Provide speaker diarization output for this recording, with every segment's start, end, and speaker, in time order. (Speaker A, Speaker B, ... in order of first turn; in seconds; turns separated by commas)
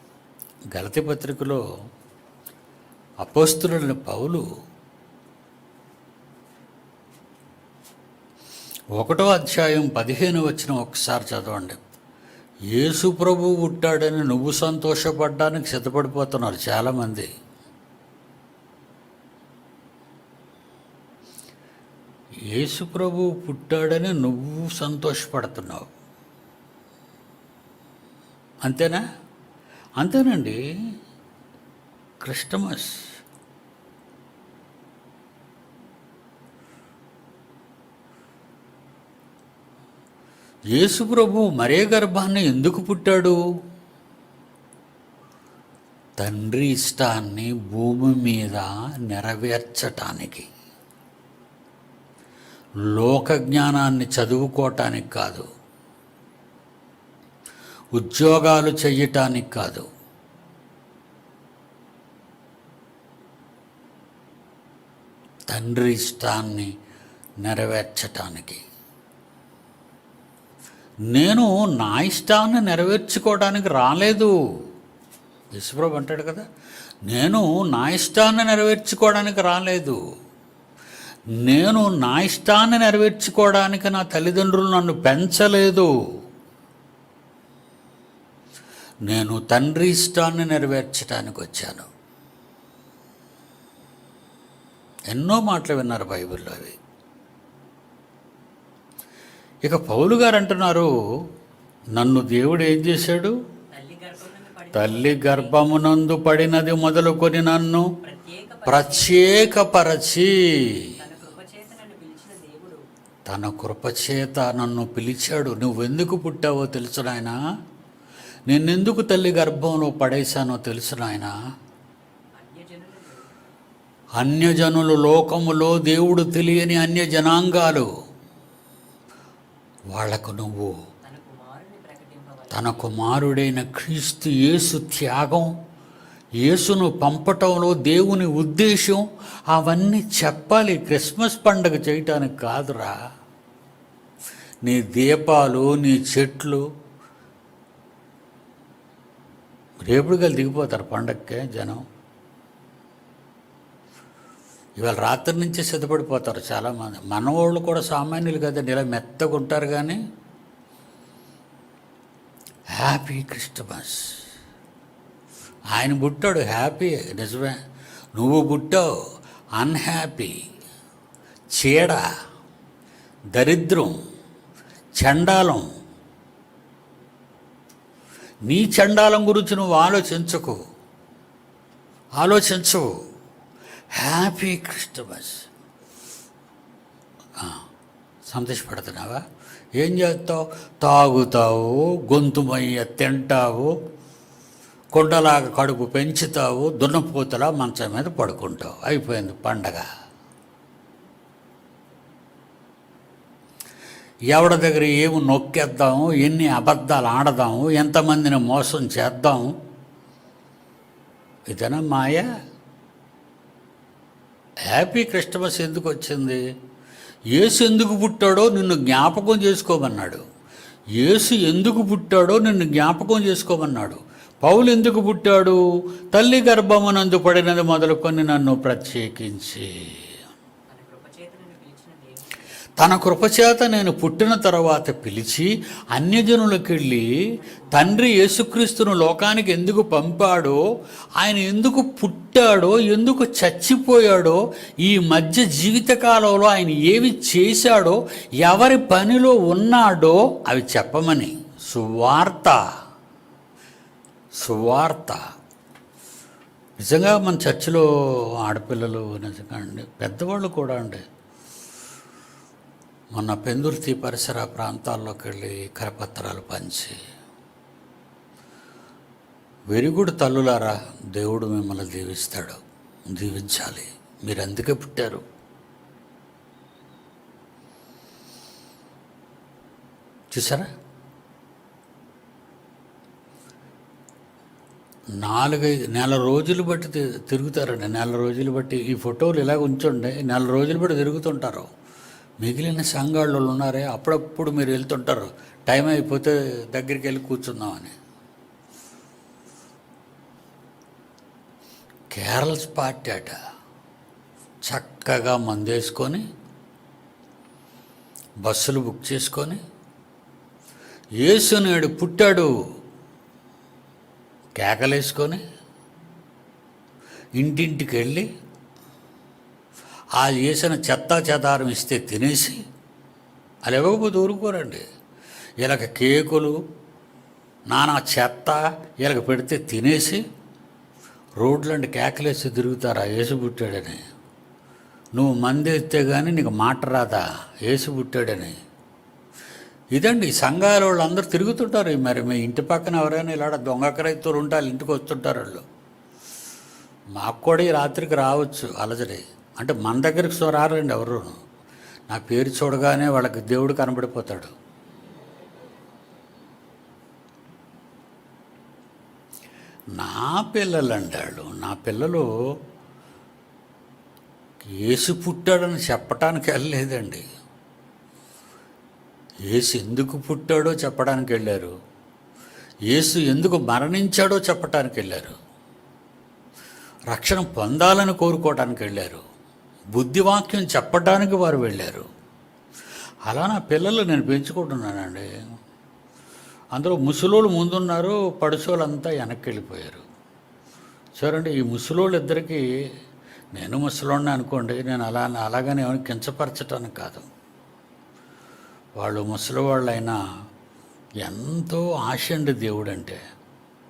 Speaker A: 0.7-1.6, Speaker A: 3.2-4.4, Speaker A: 9.0-11.8, Speaker A: 12.7-17.3, Speaker A: 22.5-25.9, Speaker A: 28.6-29.0, Speaker A: 30.0-30.6, Speaker A: 32.2-33.0, Speaker A: 40.8-43.4, Speaker A: 46.2-50.5, Speaker A: 52.9-55.5, Speaker A: 58.0-59.9, Speaker A: 65.5-66.7, Speaker A: 67.4-68.6, Speaker A: 71.1-74.3, Speaker A: 75.5-76.5, Speaker A: 77.1-80.0, Speaker A: 81.4-85.9, Speaker A: 89.1-91.9, Speaker A: 95.1-96.8, Speaker A: 99.6-100.9, Speaker A: 102.0-103.3, Speaker B: 103.7-105.6, Speaker A: 104.7-107.9, Speaker B: 108.0-109.5, Speaker A: 108.7-110.9, Speaker B: 111.0-112.8, Speaker A: 113.3-117.3, Speaker A: 118.5-121.3, Speaker B: 122.4-123.3, Speaker A: 124.2-127.9, Speaker A: 129.9-130.7, Speaker B: 131.1-133.0, Speaker A: 132.5-135.6, Speaker A: 136.4-142.9, Speaker A: 144.7-146.6, Speaker A: 149.9-151.8, Speaker A: 154.8-160.0, Speaker A: 162.7-164.1, Speaker A: 165.7-167.6, Speaker A: 168.2-168.9, Speaker A: 169.6-170.3, Speaker A: 171.5-172.0, Speaker A: 173.3-173.9, Speaker A: 175.0-175.6, Speaker A: 178.5-180.6, Speaker A: 182.2-182.9, Speaker A: 183.9-185.4, Speaker A: 188.2-189.2, Speaker A: 189.8-193.7, Speaker A: 194.9-199.9, Speaker A: 204.3-209.5, Speaker A: 211.5-212.3, Speaker A: 214.7-216.4, Speaker A: 217.3-220.2, Speaker A: 221.0-225.6, Speaker A: 226.1-229.7, Speaker B: 230.7-232.3, Speaker A: 232.8-237.1, Speaker B: 237.4-237.9, Speaker A: 237.7-240.6, Speaker A: 241.2-252.6, Speaker A: 254.4-255.2, Speaker A: 256.8-257.9, Speaker A: 258.4-261.0, Speaker A: 263.1-266.9, Speaker A: 269.7-275.2, Speaker A: 280.3-280.7, Speaker A: 285.2-291.7, Speaker A: 292.4-297.9, Speaker A: 302.1-303.3, Speaker A: 304.6-306.2, Speaker A: 308.4-309.6, Speaker A: 311.2-312.5, Speaker A: 314.6-315.4, Speaker A: 317.4-318.3, Speaker A: 320.1-322.6, Speaker A: 323.6-324.8, Speaker A: 325.6-326.6, Speaker A: 327.7-330.2, Speaker A: 331.4-334.0, Speaker A: 335.1-338.5, Speaker A: 339.9-345.6, Speaker A: 347.2-351.4, Speaker A: 352.1-354.5, Speaker A: 359.9-362.3, Speaker A: 364.6-367.2, Speaker A: 369.5-371.7, Speaker A: 372.9-375.4, Speaker A: 377.1-379.2, Speaker A: 379.9-382.1, Speaker A: 383.2-385.2, Speaker A: 386.8-390.0, Speaker A: 391.2-392.6, Speaker A: 393.6-397.3, Speaker A: 399.0-400.2, Speaker A: 401.2-403.2